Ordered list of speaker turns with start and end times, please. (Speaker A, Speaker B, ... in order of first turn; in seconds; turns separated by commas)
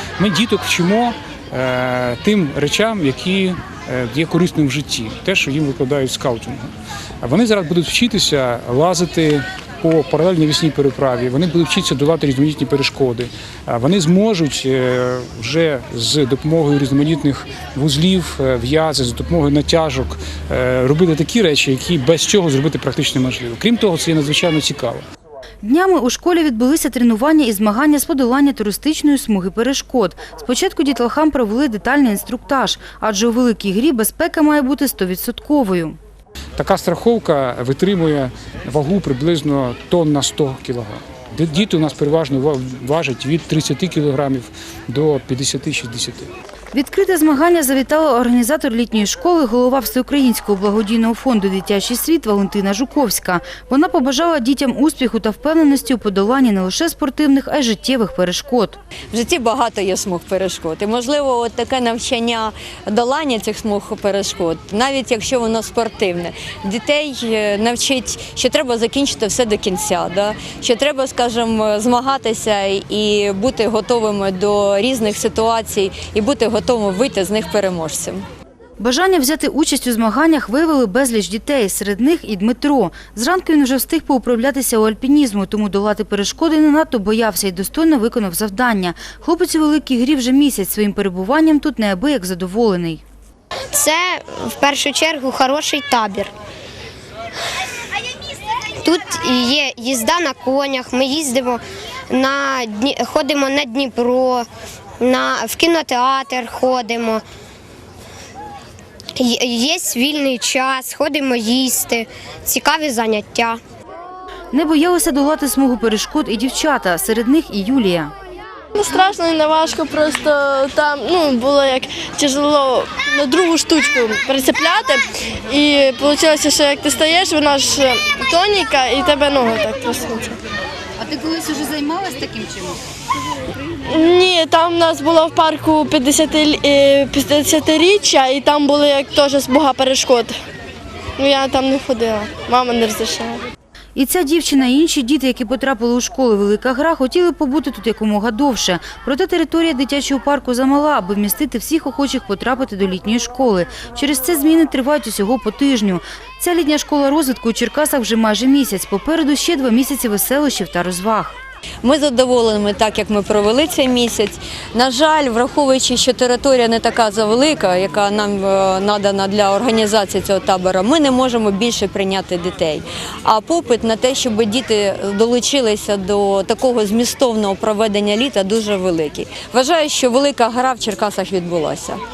Speaker A: 0.2-6.7, Speaker A: 7.2-25.0, Speaker B: 25.6-36.0, Speaker A: 36.6-46.3, Speaker B: 46.7-58.8, Speaker C: 59.1-78.2, Speaker B: 78.8-93.0, Speaker D: 93.7-96.3, Speaker D: 98.8-104.5, Speaker D: 105.0-107.2, Speaker D: 109.2-113.6, Speaker B: 114.5-118.1, Speaker E: 118.8-130.4, Speaker B: 131.0-132.8, Speaker E: 133.9-140.3, Speaker E: 141.2-143.4, Speaker B: 144.0-161.4, Speaker C: 161.8-182.0